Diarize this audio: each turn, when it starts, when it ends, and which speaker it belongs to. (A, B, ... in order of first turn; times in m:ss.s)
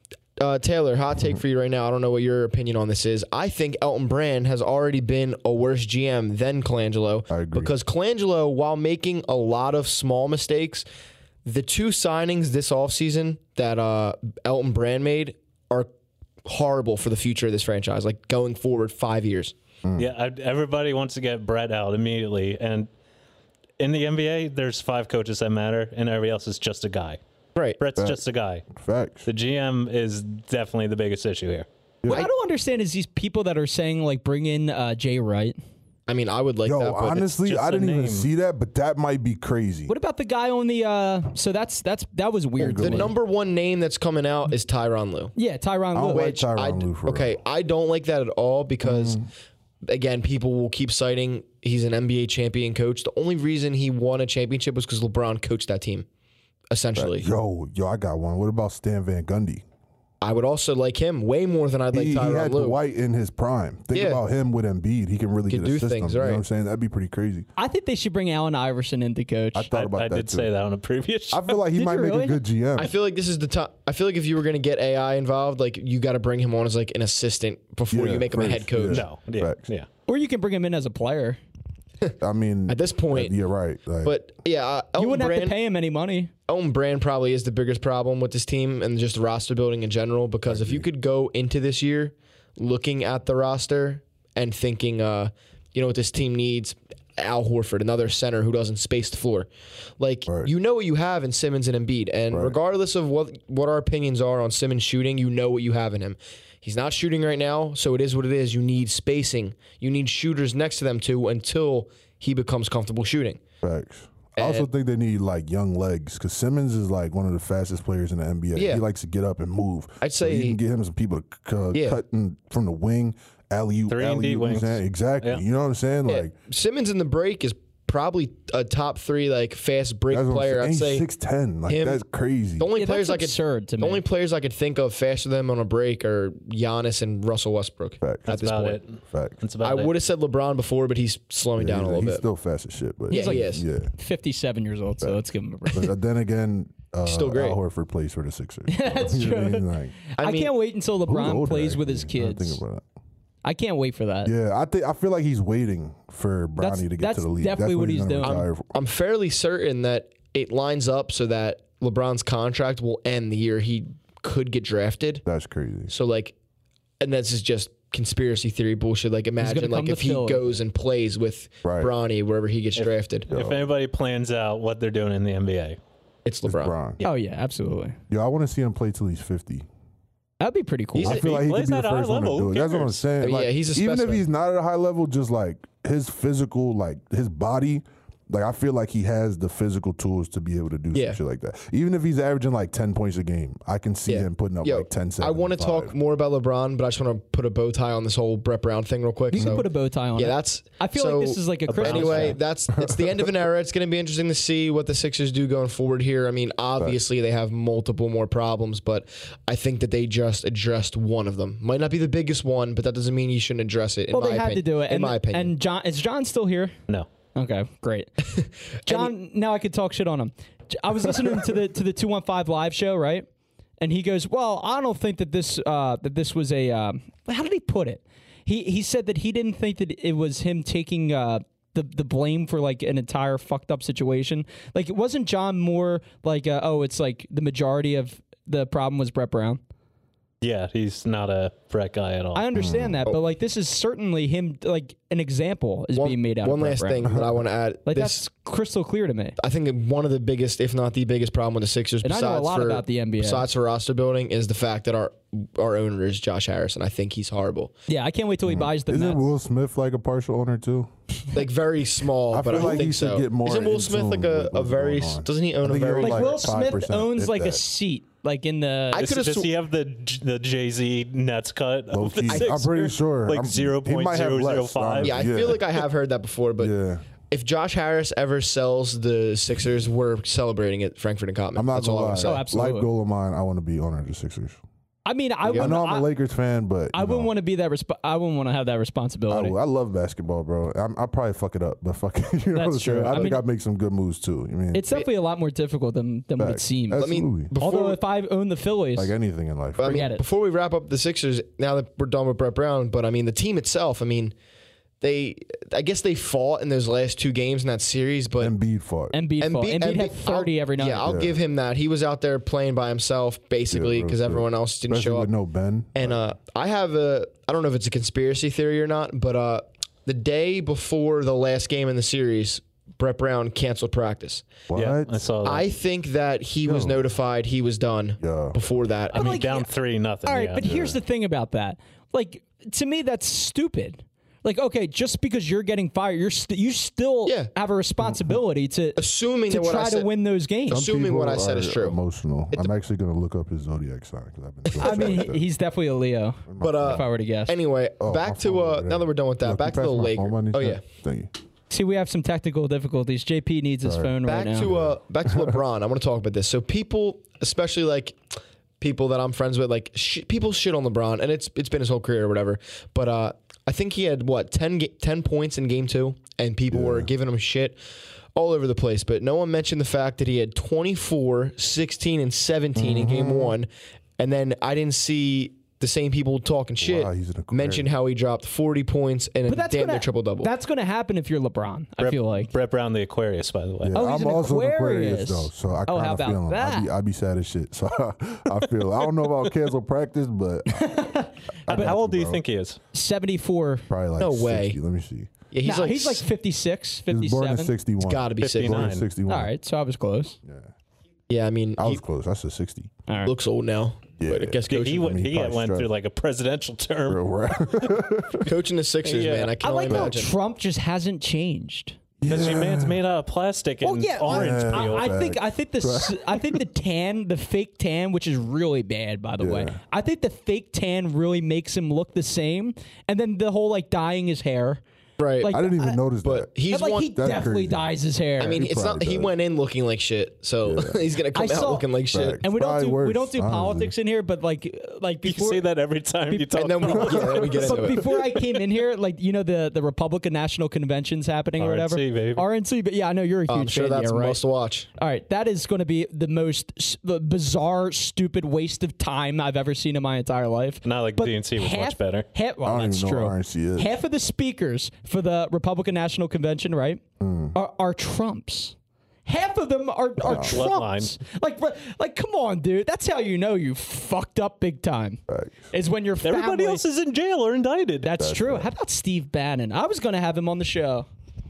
0:00.4-0:10.8 A
0:07.3-0:07.7 B
0:11.4-0:15.9 A
0:16.4-0:19.5 A
0:20.0-0:22.9 C
0:23.8-0:27.2 C
0:27.8-0:28.6 C
0:28.7-0:29.3 B
0:29.2-0:31.7 C
0:32.0-0:32.3 B
0:32.1-0:35.6 D
0:36.1-0:37.3 A
0:36.6-0:39.9 B
0:37.4-0:38.3 C
0:39.9-0:43.1 D
0:42.6-0:43.1 B
0:42.8-0:45.3 A
0:45.3-0:46.4 D
0:45.9-0:47.4 B
0:46.1-0:49.2 A
0:48.8-0:49.3 B
0:49.8-0:56.0 A
0:56.7-0:57.3 A
0:57.0-0:59.6 B
1:00.2-1:02.8 A
1:01.9-1:07.5 B
1:03.9-1:04.2 A
1:05.5-1:06.4 A
1:07.6-1:09.7 D
1:09.5-1:10.5 B
1:09.7-1:11.6 C
1:11.3-1:12.9 B
1:11.7-1:12.4 D
1:12.8-1:19.0 A
1:17.9-1:19.6 B
1:18.8-1:19.9 C
1:20.1-1:21.4 D
1:22.2-1:24.2 B
1:22.7-1:23.3 A
1:24.0-1:25.5 A
1:25.0-1:26.3 D
1:26.5-1:53.4 A
1:30.4-1:30.9 B
1:40.3-1:40.5 B
1:42.3-1:42.6 B
1:53.6-2:06.3 B
1:54.4-1:54.7 A
1:58.5-1:58.8 A
2:00.0-2:00.6 A
2:01.7-2:02.0 A
2:03.9-2:05.4 C
2:06.0-2:11.0 A
2:10.1-2:12.7 B
2:11.7-2:12.0 A
2:12.6-2:18.8 A
2:12.7-2:14.0 D
2:18.0-2:18.3 B
2:18.3-2:19.9 C
2:19.0-2:19.4 B
2:19.6-2:22.2 A
2:21.6-2:23.9 B
2:23.1-2:23.6 A
2:23.1-2:25.9 D
2:25.0-2:30.0 B
2:27.0-2:27.6 A
2:28.7-2:32.6 D
2:30.2-2:30.5 A
2:31.1-2:32.8 B
2:33.4-2:34.3 D
2:34.2-2:38.7 B
2:36.6-2:38.4 D
2:38.2-2:45.2 A
2:45.2-2:45.9 B
2:45.9-2:46.3 A
2:47.0-2:53.3 A
2:49.4-2:50.4 D
2:51.6-2:51.9 B
2:52.8-2:55.8 C
2:53.3-2:53.7 B
2:56.2-2:56.7 A
2:56.4-2:57.0 B
2:57.0-2:58.0 D
2:58.1-2:59.6 B
3:00.4-3:01.2 D
3:01.0-3:15.9 B
3:01.0-3:03.0 C
3:03.2-3:04.2 A
3:10.9-3:11.2 A
3:14.1-3:35.5 A
3:19.3-3:22.4 D
3:19.3-3:19.6 B
3:21.8-3:22.4 C
3:22.0-3:23.3 B
3:34.1-3:36.7 D
3:37.3-3:38.1 D
3:38.3-3:39.1 A
3:38.8-3:43.2 D
3:43.8-3:59.6 D
4:00.4-4:02.4 C
4:02.3-4:07.1 D
4:02.5-4:03.0 B
4:05.9-4:08.2 A
4:07.0-4:07.4 B
4:07.9-4:09.4 D
4:09.4-4:17.7 A
4:12.0-4:13.4 D
4:17.9-4:19.2 D
4:18.4-4:20.9 B
4:21.3-4:26.6 A
4:22.3-4:27.6 B
4:26.0-4:29.1 D
4:28.9-4:29.5 A
4:28.9-4:35.3 C
4:31.9-4:35.6 B
4:32.3-4:32.9 A
4:35.0-4:36.7 A
4:36.6-4:37.0 B
4:37.3-4:42.4 A
4:41.5-4:44.6 B
4:42.2-4:42.9 D
4:45.0-4:46.1 D
4:45.4-4:45.7 A
4:45.5-4:47.3 B
4:46.9-4:49.5 D
4:49.3-4:55.0 B
4:52.5-4:53.4 D
4:53.0-4:53.3 A
4:54.7-4:59.1 D
4:56.4-4:57.5 B
4:56.9-4:58.0 A
4:59.0-5:00.1 B
4:59.8-5:04.3 A
4:59.8-5:00.2 D
5:05.0-5:08.5 A
5:08.4-5:09.2 B
5:09.1-5:11.1 D
5:09.4-5:15.3 A
5:11.0-5:11.4 B
5:13.7-5:16.2 B
5:15.9-5:24.6 A
5:24.7-5:25.1 B
5:24.7-5:25.7 C
5:25.4-5:29.4 A
5:26.6-5:27.1 B
5:28.2-5:28.6 B
5:29.1-5:29.7 D
5:29.1-5:30.7 C
5:30.2-5:40.9 D
5:30.6-5:31.0 B
5:37.2-5:37.5 A
5:38.0-5:38.4 B
5:39.0-5:40.1 A
5:40.7-5:45.4 B
5:40.7-5:42.0 A
5:44.6-5:45.3 A
5:44.8-5:47.5 D
5:46.5-5:47.0 B
5:46.6-5:50.8 A
5:48.0-5:51.3 B
5:51.7-5:54.7 D
5:53.8-5:55.6 B
5:54.2-5:58.2 A
5:58.8-6:07.8 A
6:06.7-6:07.1 B
6:08.3-6:20.5 A
6:12.8-6:13.6 B
6:16.8-6:17.9 B
6:19.5-6:22.5 D
6:22.0-6:24.0 C
6:23.8-6:31.0 B
6:23.9-6:26.9 D
6:30.7-6:31.9 D
6:31.6-6:32.4 B
6:31.7-6:32.8 C
6:32.9-6:33.8 D
6:33.9-6:35.3 B
6:34.2-6:34.8 A
6:35.5-6:36.2 A
6:35.6-6:37.7 D
6:37.1-6:39.5 B
6:38.0-6:38.9 A
6:38.4-6:39.0 C
6:39.3-6:40.4 D
6:40.4-6:40.7 B
6:41.3-6:42.0 A
6:41.8-6:42.9 B
6:43.1-6:43.3 D
6:43.2-6:45.1 A
6:44.2-6:45.9 B
6:44.7-6:47.8 C
6:47.0-6:48.5 B
6:48.4-6:50.3 A
6:49.0-6:49.5 C
6:49.6-6:52.0 D
6:49.9-6:50.1 B
6:52.2-6:53.0 B
6:52.2-6:55.1 C
6:53.8-7:04.8 D
6:54.2-6:56.6 B
6:59.4-6:59.8 B
7:05.2-7:05.6 A
7:05.4-7:06.0 D
7:05.5-7:06.5 B
7:06.2-7:07.2 A
7:06.7-7:08.6 D
7:07.1-7:09.3 B
7:08.4-7:12.4 A
7:10.6-7:11.0 B
7:11.3-7:11.9 D
7:12.1-7:13.9 B
7:12.4-7:15.6 D
7:15.2-7:18.8 C
7:16.3-7:24.4 D
7:16.5-7:18.0 A
7:21.6-7:22.4 C
7:23.5-7:24.9 A
7:25.0-7:37.0 D
7:30.8-7:32.3 C
7:32.6-7:34.0 B
7:37.2-7:37.5 B
7:37.5-7:38.7 D
7:39.2-7:46.8 D
7:40.2-7:40.6 B
7:40.2-7:41.1 C
7:45.3-7:45.7 B
7:46.2-7:48.1 C
7:48.0-7:51.1 D
7:48.2-7:48.7 B